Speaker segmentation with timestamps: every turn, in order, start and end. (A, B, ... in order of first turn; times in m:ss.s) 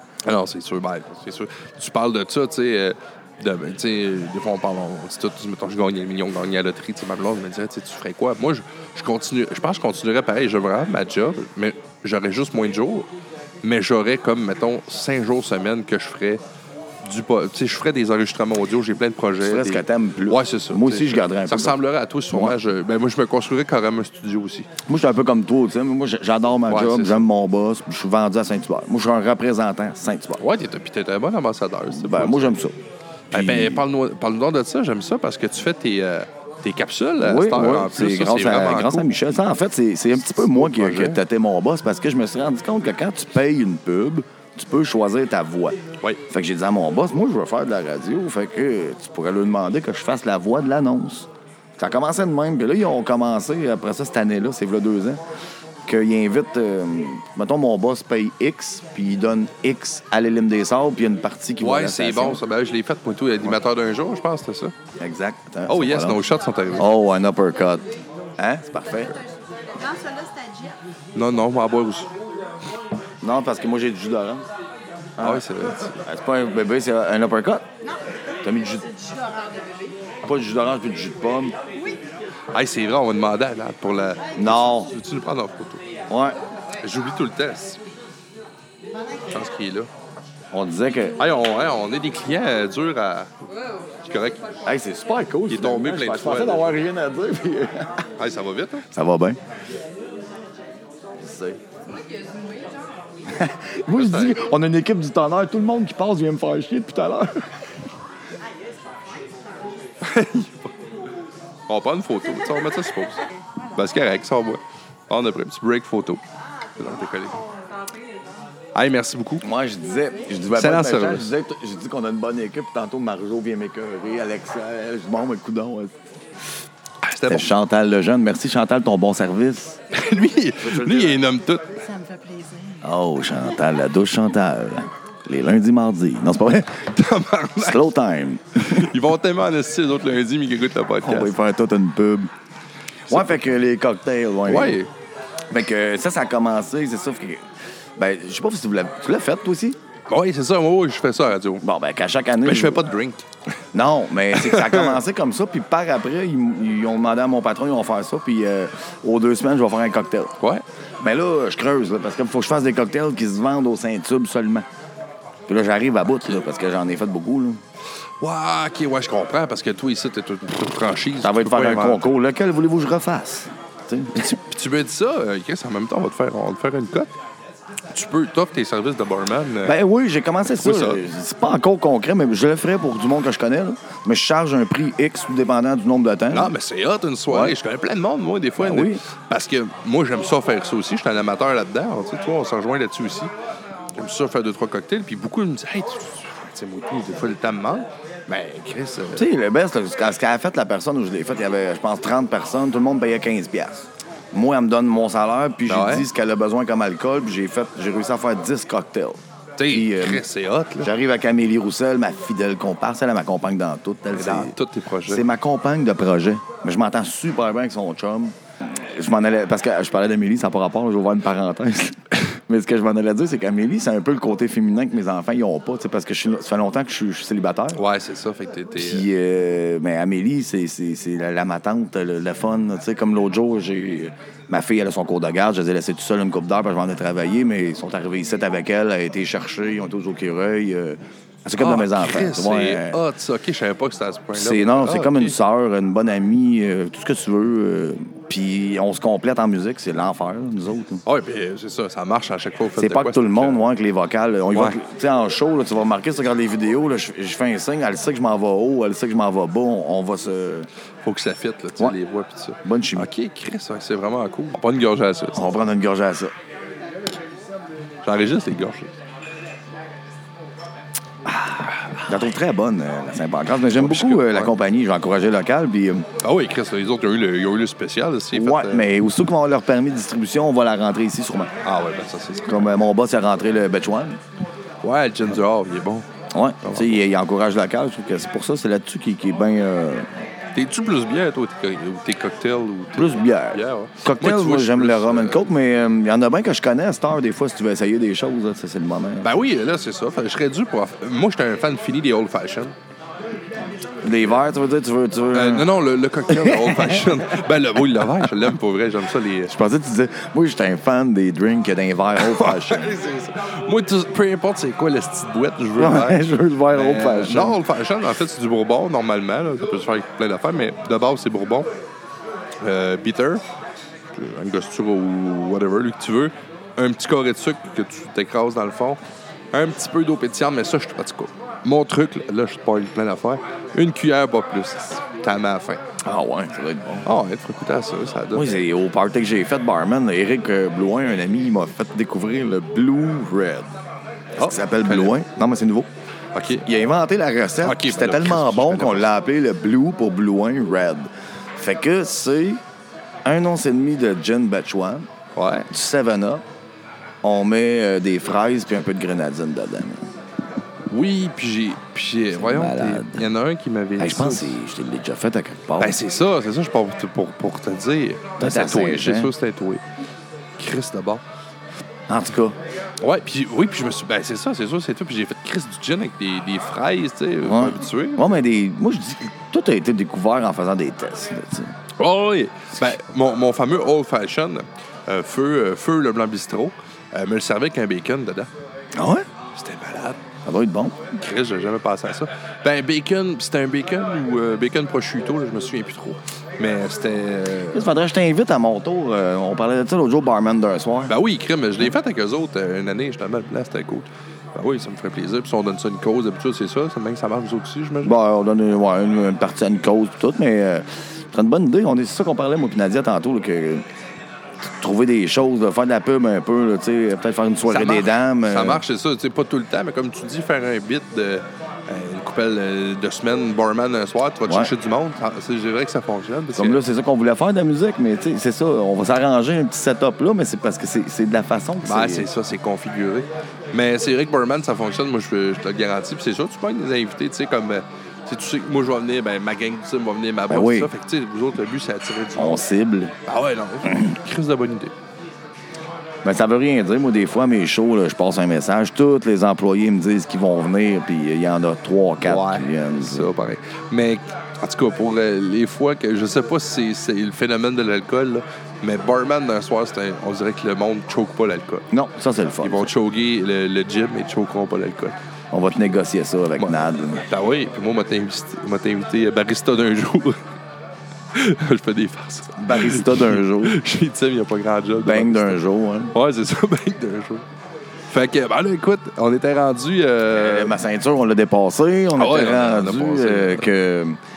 0:00.2-0:13.1 A
0:13.6-0:16.4 A
0:17.0-0:24.7 A
0:19.4-0:21.8 B
0:22.3-0:22.6 B
0:24.9-0:30.4 B
0:26.7-0:27.3 A
0:30.4-0:32.6 A
0:31.9-0:32.7 B
0:33.3-0:39.1 A
0:33.3-0:33.8 B
0:37.2-0:45.8 B
0:40.4-0:41.2 A
0:46.3-0:55.2 B
0:55.8-1:02.4 B
1:01.6-1:04.7 A
1:05.0-1:06.2 B
1:05.7-1:06.9 A
1:06.8-1:07.8 B
1:08.4-1:09.2 B
1:08.9-1:10.8 C
1:11.1-1:12.1 A
1:13.2-1:14.4 B
1:15.2-1:17.6 B
1:15.2-1:16.0 A
1:18.4-1:18.8 B
1:18.6-1:20.0 C
1:20.2-1:21.6 B
1:22.5-1:25.8 A
1:24.3-1:24.9 B
1:26.1-1:26.4 B
1:26.8-1:27.8 A
1:29.3-1:29.9 A
1:30.5-1:31.2 B
1:31.2-1:33.4 A
1:34.0-1:34.5 A
1:34.6-1:38.0 B
1:35.5-1:36.8 A
1:38.2-1:38.9 A
1:38.9-1:39.4 B
1:41.2-1:41.6 B
1:41.8-1:42.9 C
1:43.3-1:47.5 B
1:43.9-1:44.4 A
1:50.0-1:50.7 A
1:51.7-1:56.2 A
1:56.8-1:57.4 A
1:57.4-1:58.4 C
1:58.7-1:59.5 A
1:59.4-2:05.9 B
2:00.5-2:01.3 A
2:07.0-2:07.5 A
2:07.3-2:09.8 B
2:09.9-2:11.7 A
2:10.6-2:11.2 B
2:11.7-2:12.9 C
2:12.8-2:16.9 B
2:16.9-2:17.8 A
2:17.6-2:18.9 B
2:18.6-2:21.3 A
2:21.0-2:22.3 B
2:23.1-2:24.8 B
2:23.1-2:23.4 A
2:24.4-2:24.9 A
2:25.5-2:29.8 B
2:30.1-2:31.6 A
2:31.6-2:32.9 B
2:32.4-2:33.2 A
2:33.7-2:40.3 B
2:34.3-2:35.0 A
2:40.4-2:40.6 A
2:41.0-2:44.7 B
2:45.5-2:47.6 B
2:48.2-2:52.0 A
2:51.2-2:54.4 B
2:54.2-2:57.1 A
2:57.9-2:59.8 A
2:59.6-3:06.5 B
3:00.6-3:01.0 A
3:06.3-3:13.3 A
3:07.3-3:07.6 B
3:08.6-3:09.0 B
3:14.0-3:19.3 A
3:19.1-3:30.2 B
3:25.7-3:26.1 A
3:29.6-3:30.9 A
3:30.8-3:34.5 B
3:34.1-3:35.2 A
3:35.0-3:47.8 B
3:47.7-3:49.1 A
3:48.8-4:03.0 B
4:01.6-4:05.4 A
4:04.3-4:11.0 B
4:11.0-4:13.7 A
4:12.8-4:20.7 B
4:14.5-4:14.8 A
4:21.0-4:25.5 A
4:22.6-4:23.1 B
4:25.4-4:26.3 B
4:28.0-4:28.9 A
4:31.5-4:32.1 A
4:32.0-4:36.0 B
4:33.7-4:34.5 A
4:36.2-4:38.9 A
4:38.3-4:41.5 B
4:41.6-4:42.7 A
4:42.5-4:44.2 B
4:44.8-4:46.1 A
4:46.3-4:50.1 B
4:46.6-4:47.0 A
4:50.5-4:55.4 A
4:53.0-4:59.3 B
4:59.2-5:02.7 A
5:04.0-5:05.7 B
5:05.3-5:09.5 A
5:06.3-5:07.4 B
5:09.5-5:13.0 B
5:12.2-5:21.7 A
5:15.8-5:17.6 B
5:22.6-5:23.4 A
5:24.1-5:29.0 A
5:29.5-5:35.8 A
5:36.0-5:37.0 B
5:37.0-5:38.6 A
5:38.3-5:43.7 B
5:44.4-5:45.2 A
5:44.4-5:45.9 B
5:46.3-5:46.6 A
5:46.6-5:52.6 B
5:47.6-5:49.1 A
5:53.2-5:55.1 B
5:55.4-5:55.7 A
5:55.7-5:56.4 B
5:57.2-6:00.0 B
6:00.9-6:04.6 A
6:02.4-6:03.3 B
6:04.0-6:06.0 B
6:05.8-6:09.8 A
6:08.4-6:09.3 B
6:10.6-6:11.2 A
6:12.1-6:12.6 B
6:13.0-6:18.4 A
6:17.4-6:21.7 B
6:22.0-6:28.5 A
6:28.9-6:29.2 B
6:29.6-6:30.2 A
6:30.4-6:31.0 B
6:31.1-6:37.9 A
6:37.7-6:41.1 B
6:41.1-6:48.1 A
6:48.0-6:53.8 B
6:54.6-6:58.8 B
6:57.7-7:06.8 A
7:04.4-7:04.7 B
7:06.6-7:12.3 B
7:11.8-7:22.6 A
7:20.5-7:20.9 B
7:22.4-7:23.1 B
7:23.2-7:24.9 A
7:26.2-7:33.3 B
7:32.2-7:41.8 A
7:41.9-7:42.9 B
7:42.6-7:45.2 A
7:45.5-7:47.2 B
7:46.6-7:50.4 A
7:51.3-7:55.6 A
7:52.6-7:53.8 B
7:55.0-7:56.1 B
7:56.1-7:57.4 A
7:58.1-8:00.8 A
8:00.3-8:04.2 B
8:02.1-8:03.7 A